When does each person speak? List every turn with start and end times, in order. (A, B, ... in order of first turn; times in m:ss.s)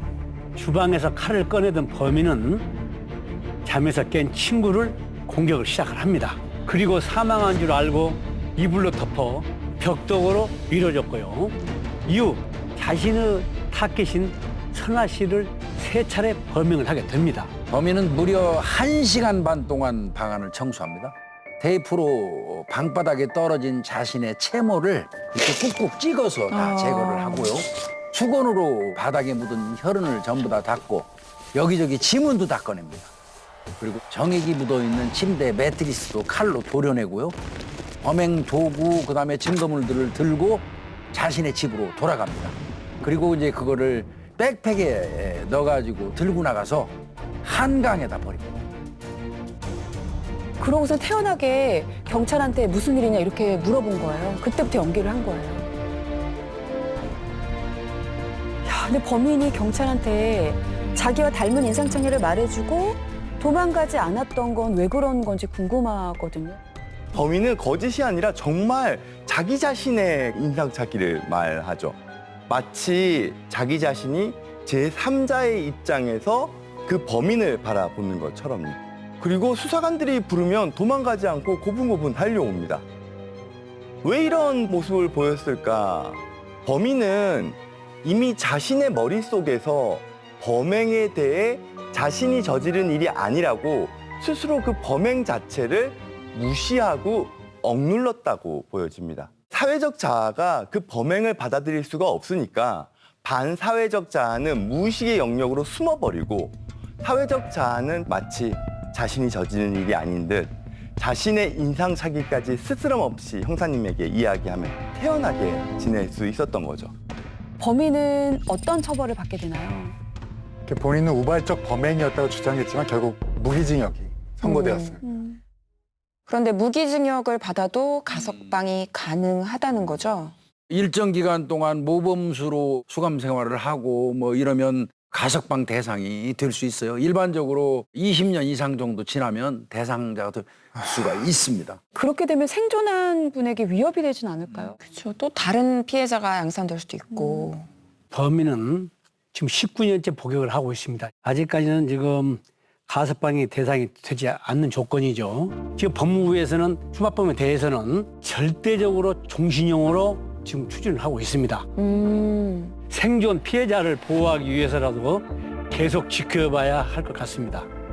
0:00.6-0:02.7 A
0:03.6-0:11.6 A
0:12.1-0:17.5 A
0:17.7-0:33.1 B
0:26.5-0:27.5 C
0:33.8-0:37.4 B
0:38.0-0:48.6 B
0:50.6-0:55.7 D
0:58.6-1:06.6 D
1:07.1-1:22.8 E
1:24.0-1:56.9 E
1:57.6-1:59.9 D
2:00.7-2:05.0 F
2:04.4-2:05.3 C
2:06.3-2:10.3 C
2:10.7-2:21.8 B
2:22.0-2:24.8 D
2:24.8-2:27.7 C
2:27.1-2:27.5 D
2:28.1-2:41.7 A
2:41.8-2:42.8 D
2:42.9-2:47.7 A